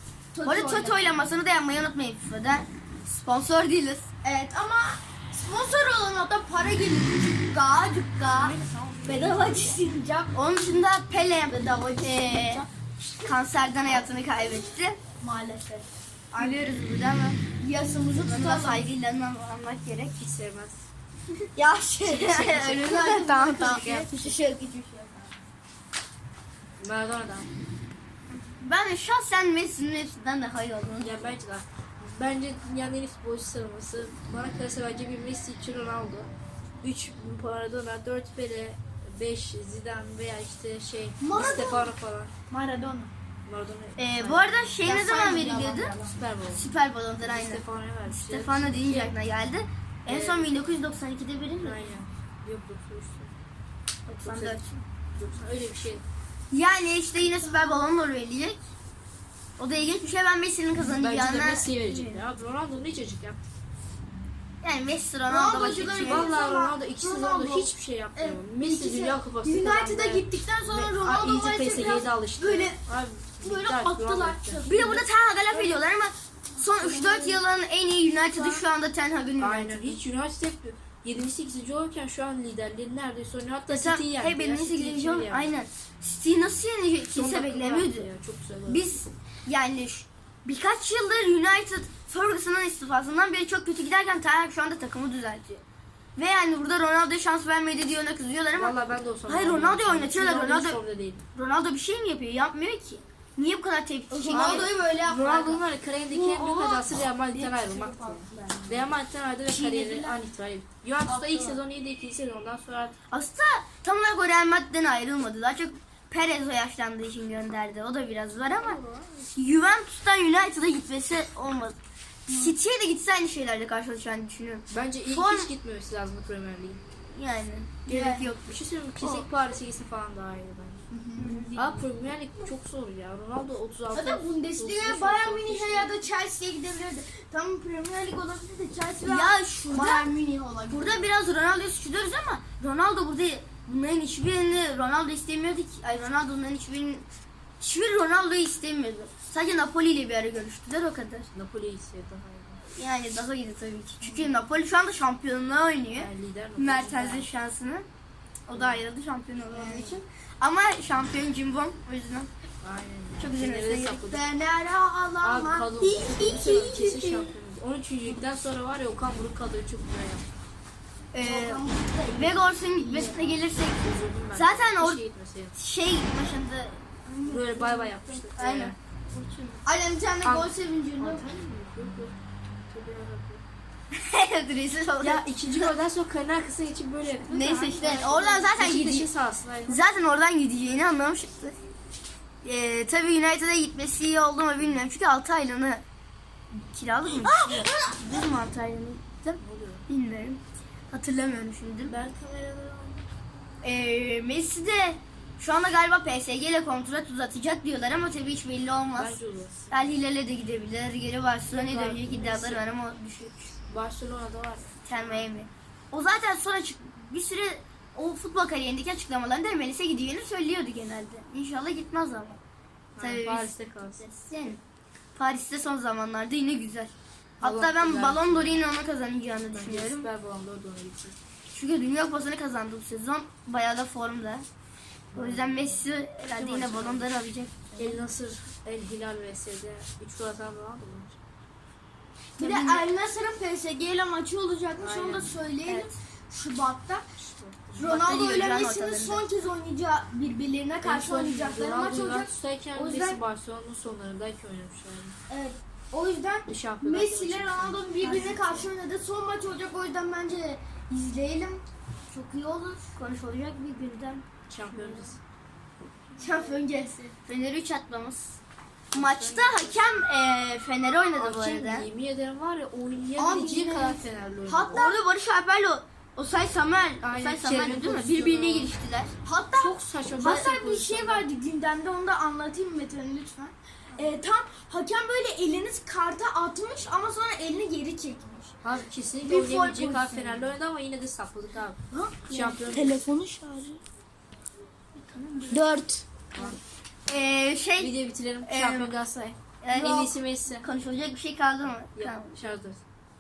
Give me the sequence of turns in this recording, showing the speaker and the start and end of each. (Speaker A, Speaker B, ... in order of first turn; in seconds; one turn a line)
Speaker A: 0.3-1.1
Speaker B: 0.5-4.1
Speaker A: 4.2-10.4
Speaker C: 8.3-9.7
Speaker B: 10.3-12.7
Speaker A: 11.5-12.7
Speaker B: 13.2-15.0
Speaker A: 15.2-16.6
Speaker B: 16.3-17.4
Speaker A: 17.5-18.9
Speaker B: 18.2-20.3
Speaker C: 20.2-20.8
Speaker B: 21.6-24.6
Speaker C: 22.0-22.9
Speaker A: 22.1-25.3
Speaker C: 23.6-24.3
Speaker C: 26.8-27.5
Speaker B: 28.4-31.2
Speaker C: 31.0-42.3
Speaker A: 41.2-42.0
Speaker A: 42.5-43.1
Speaker C: 43.5-44.5
Speaker B: 44.0-45.9
Speaker A: 44.9-46.2
Speaker C: 46.0-46.7
Speaker B: 46.5-51.8
Speaker C: 47.2-49.1
Speaker C: 50.1-50.5
Speaker C: 51.6-53.3
Speaker B: 54.1-54.9
Speaker C: 54.2-54.6
Speaker C: 55.1-56.0
Speaker B: 56.5-58.6
Speaker B: 59.6-62.2
Speaker C: 60.8-63.4
Speaker B: 64.6-66.3
Speaker A: 65.3-72.8
Speaker C: 65.9-74.6
Speaker A: 73.4-75.8
Speaker B: 74.7-80.0
Speaker A: 76.6-77.4
Speaker C: 78.4-78.6
Speaker C: 79.4-85.5
Speaker B: 83.7-88.1
Speaker C: 87.1-88.8
Speaker B: 88.7-95.6
Speaker B: 96.2-98.8
Speaker C: 98.6-101.2
Speaker B: 99.3-100.8
Speaker B: 101.3-104.7
Speaker A: 104.1-108.9
Speaker C: 104.3-113.0
Speaker A: 109.5-110.2
Speaker A: 111.0-111.6
Speaker B: 113.1-118.8
Speaker C: 118.5-119.3
Speaker B: 119.3-121.8
Speaker A: 122.3-122.6
Speaker B: 122.3-125.5
Speaker C: 124.7-126.8
Speaker B: 127.1-129.3
Speaker A: 127.9-128.3
Speaker C: 128.4-130.8
Speaker A: 130.9-131.8
Speaker B: 131.2-131.5
Speaker C: 131.6-136.0
Speaker A: 133.9-141.1
Speaker B: 139.0-140.1
Speaker B: 140.7-147.1
Speaker B: 147.6-151.3
Speaker C: 151.3-152.6
Speaker B: 152.7-157.9
Speaker C: 156.0-157.3
Speaker B: 158.5-162.3
Speaker C: 158.5-158.8
Speaker A: 159.5-160.0
Speaker C: 162.6-164.3
Speaker B: 163.2-164.0
Speaker A: 164.1-166.5
Speaker C: 165.2-170.2
Speaker B: 166.1-167.3
Speaker B: 171.1-175.0
Speaker A: 171.2-173.4
Speaker C: 173.8-175.5
Speaker B: 175.5-179.6
Speaker C: 177.2-178.8
Speaker A: 179.6-181.3
Speaker C: 180.2-182.2
Speaker C: 182.7-183.4
Speaker B: 183.9-185.7
Speaker C: 185.0-189.8
Speaker B: 187.2-189.1
Speaker A: 187.9-188.3
Speaker B: 189.7-191.6
Speaker B: 192.4-195.8
Speaker B: 196.5-201.9
Speaker C: 197.2-197.8
Speaker C: 199.4-199.9
Speaker C: 201.8-203.1
Speaker B: 203.6-209.2
Speaker C: 209.0-209.9
Speaker B: 209.7-213.6
Speaker C: 211.5-212.7
Speaker C: 213.7-215.3
Speaker B: 214.8-222.4
Speaker C: 223.0-224.0
Speaker B: 223.0-224.6
Speaker B: 225.2-230.1
Speaker C: 227.4-228.6
Speaker C: 229.5-231.2
Speaker B: 231.5-234.4
Speaker C: 235.1-237.1
Speaker B: 235.1-238.0
Speaker C: 237.8-241.2
Speaker A: 242.4-247.1
Speaker B: 242.4-242.9
Speaker C: 244.8-245.3
Speaker B: 245.7-246.0
Speaker C: 247.2-247.9
Speaker A: 247.8-253.2
Speaker B: 247.8-249.2
Speaker C: 250.8-255.2
Speaker A: 255.3-262.9
Speaker C: 256.5-258.7
Speaker B: 258.0-258.5
Speaker B: 263.0-264.2
Speaker C: 264.5-265.2
Speaker A: 264.7-265.1
Speaker A: 266.2-267.1
Speaker B: 266.3-266.6
Speaker B: 267.2-268.4
Speaker C: 268.9-269.8
Speaker B: 268.9-271.9
Speaker C: 271.2-274.8
Speaker A: 273.2-275.0
Speaker B: 274.7-279.1
Speaker C: 277.0-278.7
Speaker A: 279.2-288.6
Speaker C: 279.5-281.3
Speaker C: 288.6-293.0
Speaker A: 289.2-290.5
Speaker A: 291.9-293.8
Speaker B: 295.0-295.7
Speaker A: 295.5-296.2
Speaker B: 297.1-298.9
Speaker C: 297.8-300.7
Speaker B: 299.6-302.4
Speaker C: 301.9-302.8